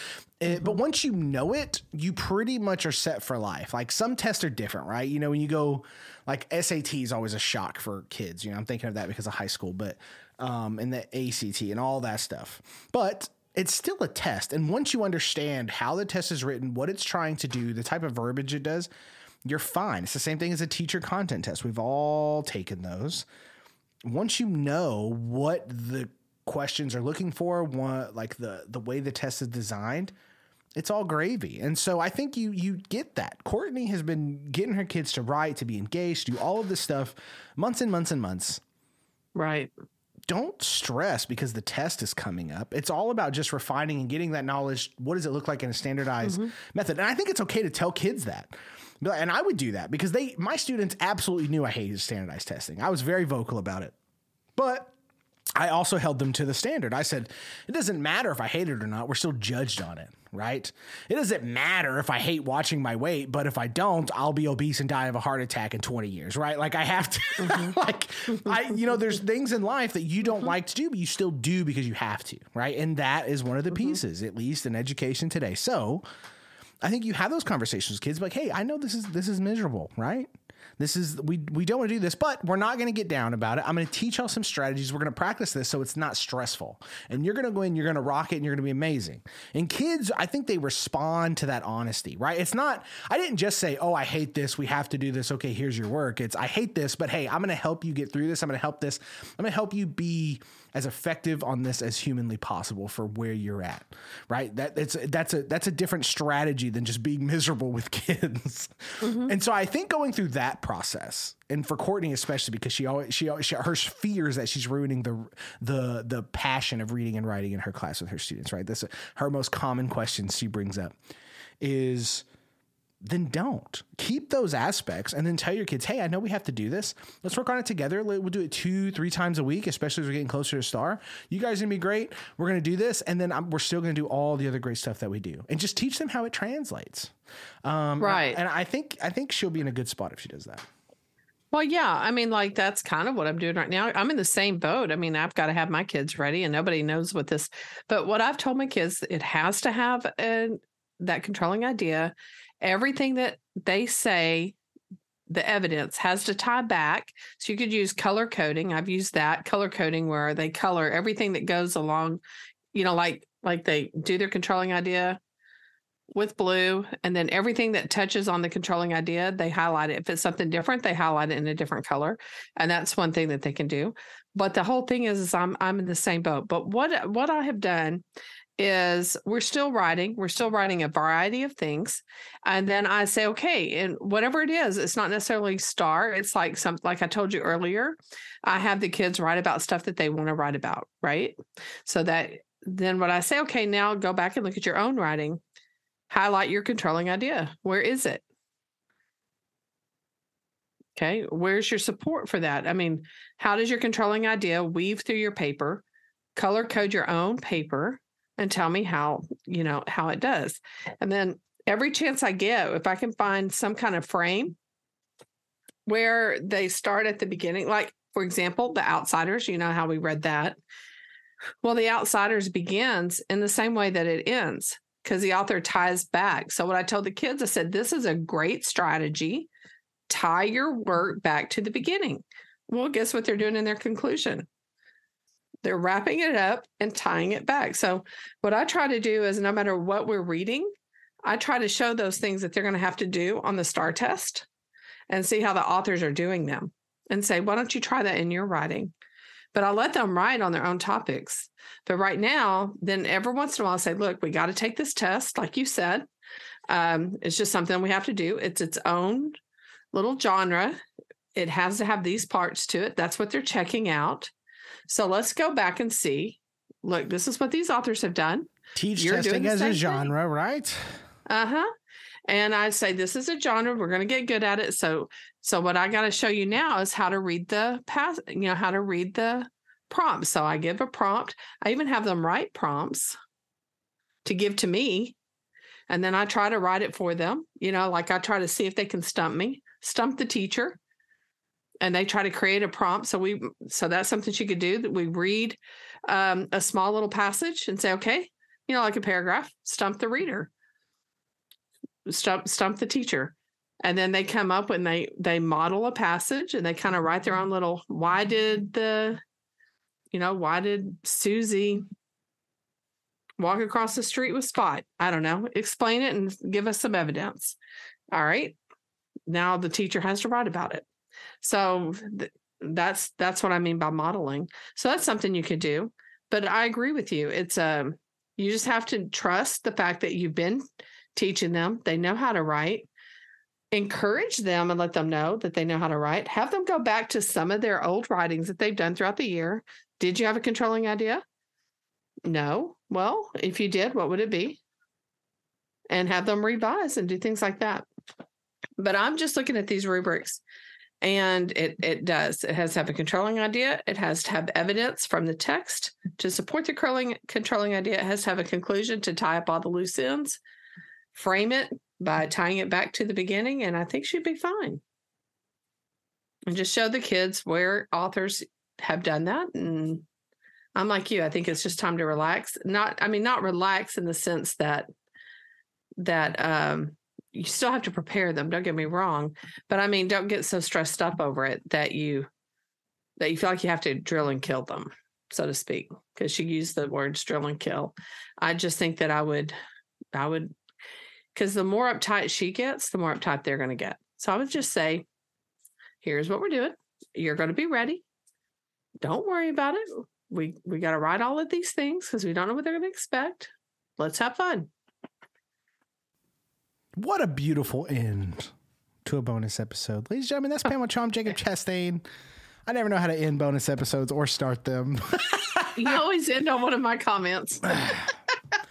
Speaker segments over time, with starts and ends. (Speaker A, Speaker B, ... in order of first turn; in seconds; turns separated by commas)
Speaker A: 0.4-18.9, Speaker A: 19.4-23.2, Speaker A: 24.0-30.1, Speaker A: 30.8-38.6, Speaker B: 39.3-39.7, Speaker A: 40.3-48.5, Speaker B: 46.2-46.5, Speaker A: 49.0-53.9, Speaker A: 54.5-54.9, Speaker A: 55.5-76.0, Speaker B: 67.4-67.7, Speaker A: 76.8-120.9, Speaker B: 109.0-109.3, Speaker A: 121.6-122.2, Speaker A: 123.0-137.1, Speaker A: 137.6-140.7, Speaker B: 138.0-138.4, Speaker B: 141.5-154.6, Speaker B: 155.3-162.2, Speaker B: 162.7-165.2, Speaker B: 166.1-178.0, Speaker B: 178.6-195.4, Speaker B: 196.1-198.2, Speaker B: 200.9-205.8, Speaker B: 206.3-214.6, Speaker B: 215.8-220.6, Speaker B: 221.6-229.5, Speaker B: 230.1-234.5, Speaker B: 235.6-240.7, Speaker B: 241.2-244.5, Speaker B: 245.1-248.9, Speaker B: 249.5-256.1, Speaker B: 256.7-259.4, Speaker B: 259.9-260.8, Speaker B: 261.3-264.3, Speaker B: 264.9-270.1, Speaker A: 268.7-271.0, Speaker B: 271.3-271.7, Speaker B: 272.3-283.2, Speaker B: 284.2-285.1, Speaker B: 285.9-290.8, Speaker B: 291.8-300.5, Speaker B: 302.1-309.2, Speaker B: 310.1-311.9, Speaker B: 313.4-317.6, Speaker B: 318.1-318.6, Speaker B: 319.3-320.9, Speaker B: 321.4-330.6, Speaker B: 331.1-332.9, Speaker B: 333.7-341.2, Speaker B: 342.2-344.6, Speaker B: 345.9-347.9, Speaker B: 348.8-350.4, Speaker B: 351.0-360.4, Speaker B: 361.1-364.8, Speaker B: 366.5-370.1, Speaker B: 370.8-374.9, Speaker B: 376.0-382.3, Speaker B: 383.2-389.5, Speaker B: 390.1-390.5, Speaker B: 391.3-395.1, Speaker B: 396.0-398.0, Speaker B: 399.0-404.7, Speaker A: 406.9-408.5, Speaker A: 409.0-412.0, Speaker A: 412.6-416.0, Speaker B: 415.8-418.1, Speaker A: 417.7-418.0